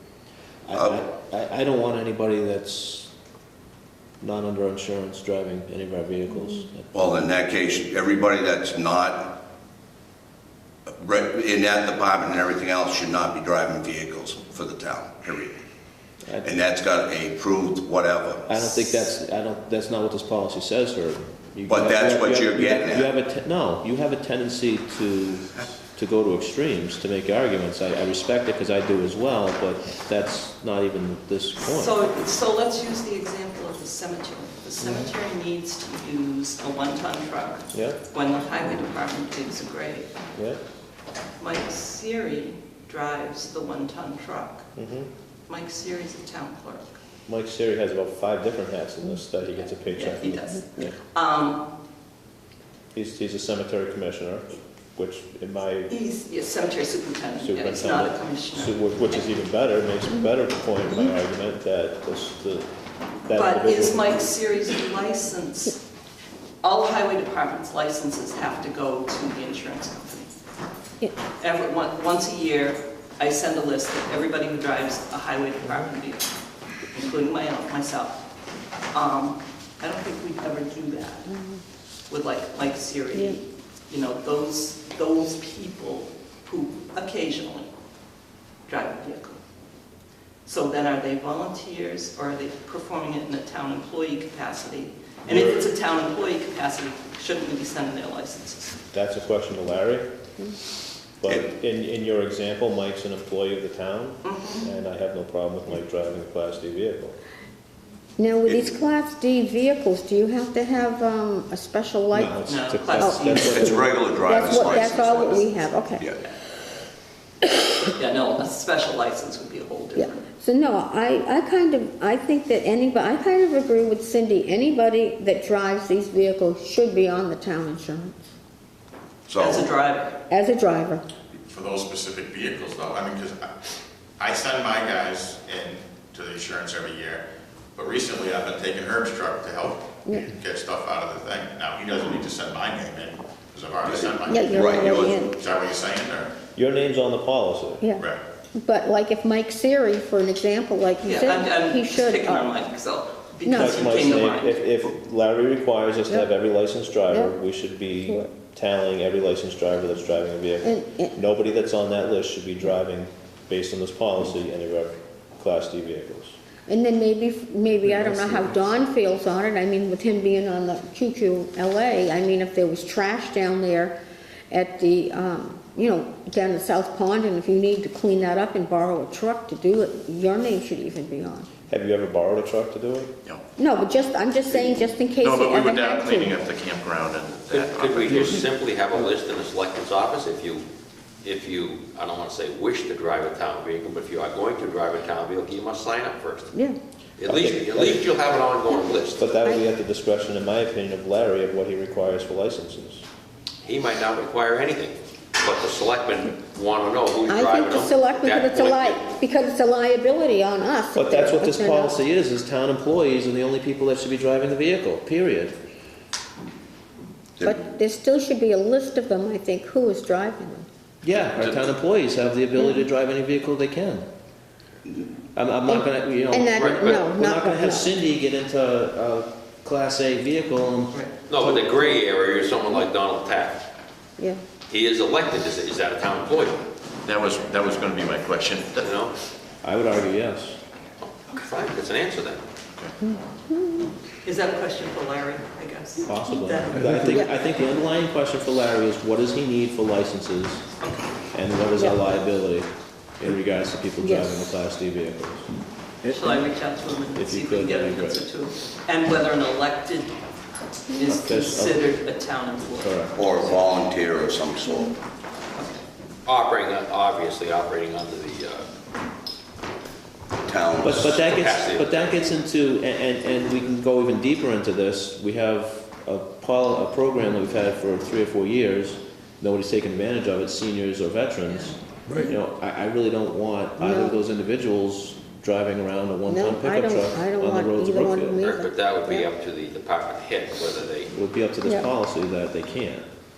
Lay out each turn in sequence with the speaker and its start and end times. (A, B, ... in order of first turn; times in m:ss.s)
0:00.6-0:03.1 A
0:00.7-0:01.0 B
0:04.2-0:06.9 A
0:06.9-0:09.4 B
0:11.0-0:15.6 B
0:16.4-0:18.5 B
0:18.5-0:32.0 A
0:21.7-0:23.1 B
0:31.6-0:40.1 C
0:34.8-0:35.1 A
0:37.7-0:38.0 A
0:40.3-0:40.6 A
0:41.4-0:44.7 C
0:44.7-0:45.1 A
0:45.5-0:47.0 C
0:47.3-0:51.0 A
0:49.9-0:51.6 C
0:52.9-0:55.9 A
0:55.9-0:58.7 C
0:57.4-1:02.7 A
1:03.2-1:04.2 A
1:03.3-1:05.8 C
1:06.6-1:10.3 C
1:11.4-1:16.3 C
1:16.9-1:18.2 C
1:18.9-1:21.3 C
1:21.3-1:21.6 D
1:22.1-1:27.7 C
1:28.6-1:29.4 C
1:30.4-1:38.8 C
1:35.2-1:35.7 A
1:38.9-1:40.1 A
1:41.2-1:47.2 A
1:44.2-1:44.6 C
1:48.2-1:52.3 D
1:48.5-1:48.7 B
1:52.1-1:54.0 A
1:52.4-1:53.8 C
1:53.0-1:56.1 D
1:53.4-1:56.2 B
1:54.6-1:55.3 C
1:57.8-2:00.2 C
2:00.0-2:08.3 D
2:09.3-2:09.7 B
2:09.4-2:10.2 C
2:10.3-2:11.0 D
2:11.5-2:13.4 E
2:14.2-2:17.2 E
2:17.8-2:26.3 E
2:20.0-2:20.3 D
2:23.8-2:25.3 B
2:24.3-2:25.3 D
2:26.6-2:27.8 A
2:28.6-2:32.5 D
2:31.0-2:34.6 C
2:33.4-2:34.0 D
2:33.5-2:46.3 A
2:38.0-2:38.3 D
2:40.6-2:41.1 D
2:46.7-2:53.9 D
2:48.0-2:48.4 A
2:54.5-3:01.5 D
3:01.7-3:03.1 A
3:03.6-3:06.4 D
3:05.2-3:08.5 E
3:07.5-3:10.6 F
3:11.2-3:16.5 F
3:17.2-3:19.2 F
3:17.2-3:18.1 A
3:19.2-3:23.0 A
3:23.6-3:29.0 F
3:27.3-3:31.9 D
3:30.9-3:35.5 A
3:37.4-3:40.6 D
3:41.0-3:44.1 A
3:42.6-3:42.8 D
3:45.3-3:51.6 A
3:45.7-3:47.9 D
3:46.5-3:47.0 F
3:51.3-3:53.6 F
3:54.7-3:56.6 F
3:57.0-3:58.9 E
3:58.8-3:59.2 F
3:59.6-4:00.6 A
4:01.3-4:02.4 F
4:03.0-4:03.9 D
4:04.2-4:07.3 C
4:06.0-4:10.6 A
4:10.8-4:11.1 C
4:11.3-4:15.5 A
4:14.0-4:14.5 D
4:16.0-4:20.2 C
4:16.0-4:16.4 A
4:17.1-4:18.3 A
4:20.9-4:23.0 C
4:21.1-4:21.9 A
4:22.8-4:23.2 A
4:23.2-4:24.9 B
4:25.5-4:25.8 C
4:26.2-4:28.7 F
4:30.4-4:31.2 B
4:30.8-4:48.4 A
4:31.0-4:31.9 F
4:41.5-4:41.8 C
4:43.8-4:44.1 D
4:46.3-4:49.2 D
4:48.4-4:51.1 F
4:51.1-4:53.0 A